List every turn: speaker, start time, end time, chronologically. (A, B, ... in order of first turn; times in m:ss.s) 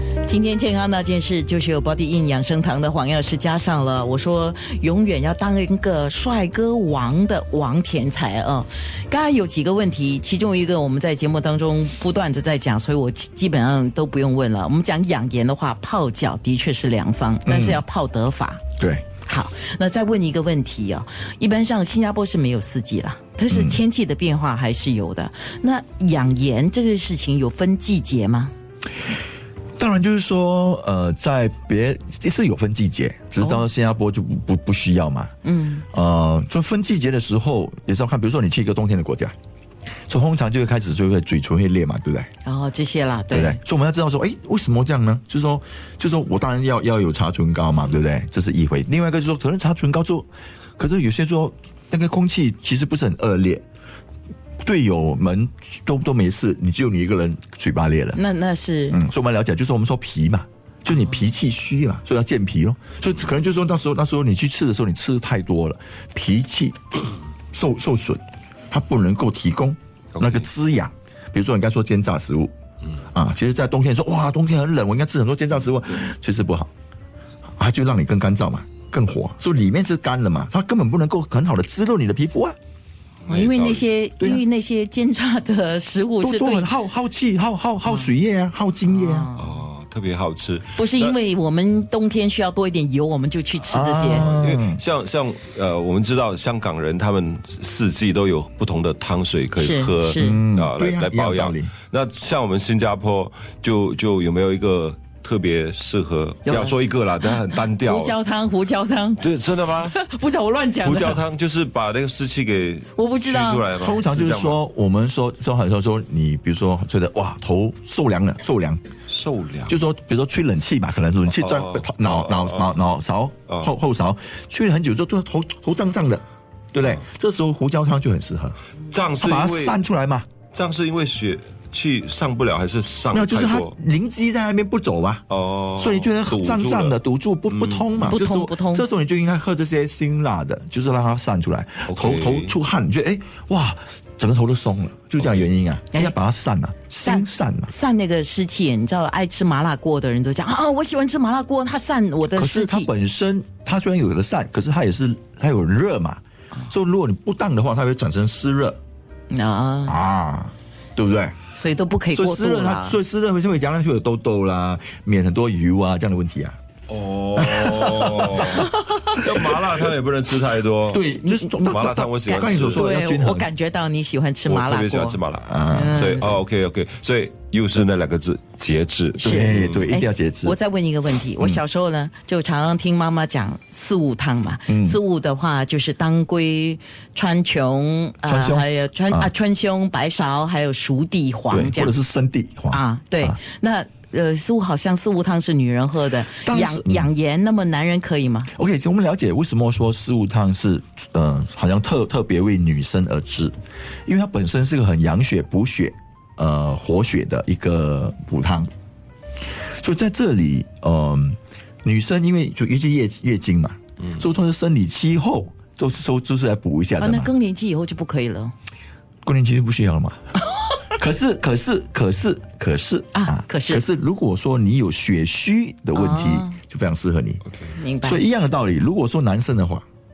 0:00.2-0:18.6 A
0:17.4-0:17.8 B
0:18.8-0:19.0 B
0:19.2-0:28.5 A
0:23.5-0:23.8 B
0:29.8-0:35.3 B
0:35.4-0:35.8 A
0:35.9-0:39.3 B
0:40.1-0:42.3 B
0:42.4-0:43.6 A
0:43.3-0:53.6 B
0:54.6-0:58.2 B
0:58.1-0:59.0 A
0:58.9-1:12.5 B
1:10.1-1:10.5 C
1:13.1-1:16.7 B
1:17.6-1:22.6 B
1:23.2-1:23.9 C
1:23.3-1:26.7 A
1:26.2-1:29.3 B
1:27.8-1:28.1 A
1:28.9-1:29.6 A
1:29.3-1:31.2 C
1:30.7-1:34.3 A
1:33.6-1:34.8 B
1:34.1-1:48.2 C
1:39.6-1:40.4 A
1:40.1-1:41.7 B
1:46.4-1:49.2 A
1:49.2-1:50.0 C
1:49.8-1:51.2 A
1:50.8-1:54.6 C
1:52.9-1:53.7 A
1:53.7-1:58.8 B
1:59.1-1:59.8 C
1:59.7-2:08.6 B
2:01.3-2:02.8 C
2:03.5-2:03.7 C
2:08.9-2:09.8 C
2:09.2-2:10.3 B
2:10.5-2:13.7 C
2:13.1-2:15.2 B
2:15.3-2:17.0 C
2:15.8-2:27.7 B
2:17.5-2:18.1 C
2:18.0-2:18.8 A
2:21.9-2:22.5 C
2:25.2-2:25.4 C
2:27.0-2:32.9 A
2:32.3-2:38.8 B
2:39.3-2:40.0 A
2:39.9-2:41.4 B
2:41.5-2:43.0 A
2:42.1-2:46.6 B
2:46.9-2:52.9 C
2:47.4-2:49.8 B
2:50.9-2:53.5 B
2:52.8-2:56.4 A
2:54.4-2:59.9 C
2:55.5-2:56.1 B
2:59.2-3:11.9 A
2:59.2-3:00.6 B
3:01.4-3:01.6 B
3:04.7-3:05.0 B
3:08.2-3:09.3 B
3:11.5-3:13.4 B
3:12.7-3:18.5 A
3:16.3-3:17.1 B
3:18.5-3:23.5 B
3:24.0-3:28.7 B
3:29.8-3:37.3 B
3:37.0-3:38.5 A
3:39.2-3:40.3 B
3:40.9-3:47.4 B
3:43.1-3:43.8 A
3:45.9-3:46.6 A
3:47.8-3:48.2 A
3:48.0-3:49.8 B